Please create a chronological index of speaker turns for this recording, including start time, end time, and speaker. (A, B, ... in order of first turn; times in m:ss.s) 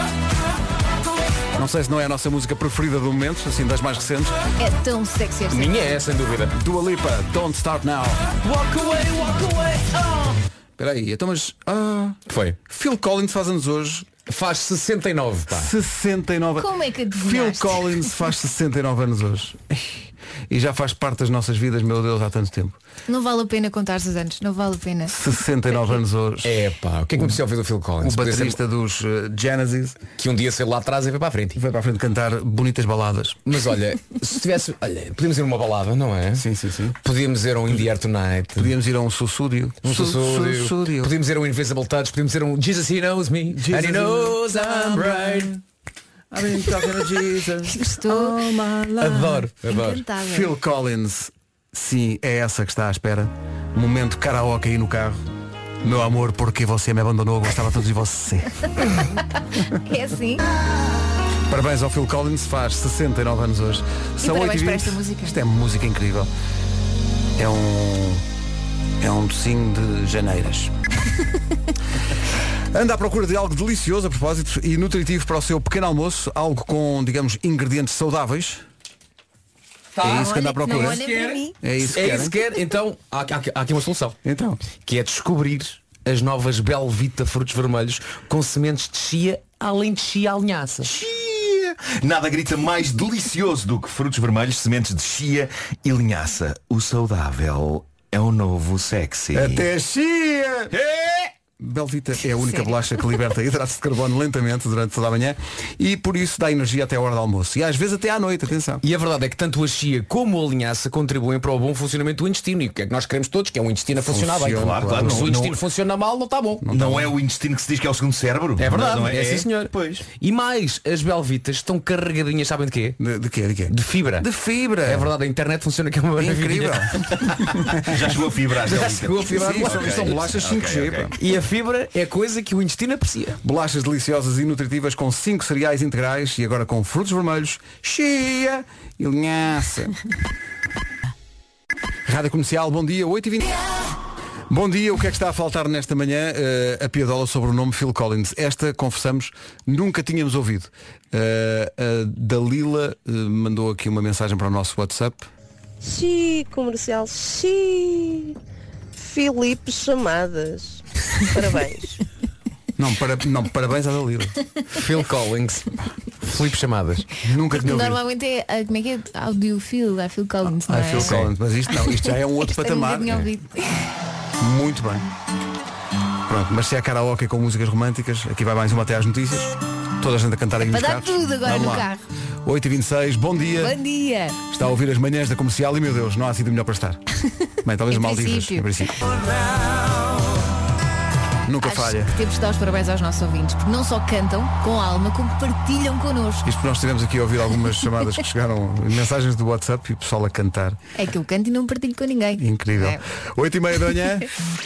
0:01.5-0:04.4 A
0:04.6-0:05.9 B
0:05.5-0:06.5 C
0:06.5-0:08.2 A
0:08.4-0:10.3 C
0:10.8-0:14.1 A
0:12.3-0:12.6 C
0:14.2-0:15.7 C
0:15.5-0:22.8 A
0:16.6-0:18.1 B
0:23.1-0:25.2 B
0:25.1-0:26.6 A
0:26.4-0:28.6 C
0:28.0-0:30.0 A
0:30.2-0:31.6 C
0:31.6-0:33.4 A
0:33.5-0:36.4 C
0:36.4-0:37.0 A
0:37.0-0:38.7 C
0:38.6-0:41.2 A
0:39.8-0:45.6 C
0:43.5-0:45.6 A
0:46.3-0:49.5 A
0:47.7-0:48.4 B
0:49.0-0:50.0 C
0:49.6-0:50.5 B
0:50.1-0:55.2 A
0:55.8-0:58.9 A
0:59.8-1:00.4 B
1:01.5-1:06.3 A
1:04.2-1:05.4 B
1:07.4-1:08.2 A
1:09.0-1:10.7 A
1:12.7-1:18.6 A
1:20.0-1:24.2 C
1:20.0-1:22.4 A
1:20.0-1:21.6 B
1:24.2-1:24.6 A
1:24.8-1:30.9 C
1:30.8-1:39.7 D
1:39.3-1:40.7 A
1:40.7-1:41.3 D
1:41.6-1:48.8 A
1:48.8-1:56.7 C
1:54.0-1:55.6 A
1:54.5-1:55.6 D
1:56.6-1:57.2 A
1:56.7-2:00.0 D
1:58.6-2:03.0 C
2:03.0-2:05.1 A
2:03.7-2:04.3 C
2:04.8-2:07.1 C
2:06.2-2:08.1 A
2:07.8-2:11.1 D
2:08.6-2:10.3 C
2:09.2-2:11.2 A
2:11.2-2:13.4 C
2:13.4-2:20.0 A
2:22.1-2:23.6 A
2:24.5-2:35.3 A
2:35.8-2:38.4 E
2:39.0-2:42.0 E
2:42.8-2:44.4 A
2:44.7-2:45.7 C
2:46.2-2:47.1 C
2:47.2-2:48.0 A
2:47.6-2:51.2 B
2:50.5-2:53.3 A
2:51.0-2:51.3 C
2:51.7-2:53.8 B
2:54.4-2:55.1 A
2:56.3-3:01.9 A
3:00.7-3:02.1 B
3:02.4-3:03.8 A
3:03.6-3:04.4 B
3:04.5-3:07.0 A
3:07.6-3:09.0 A
3:07.9-3:08.7 B
3:11.5-3:12.1 A
3:11.6-3:16.5 B
3:16.4-3:20.8 A
3:21.0-3:23.0 B
3:22.4-3:24.3 A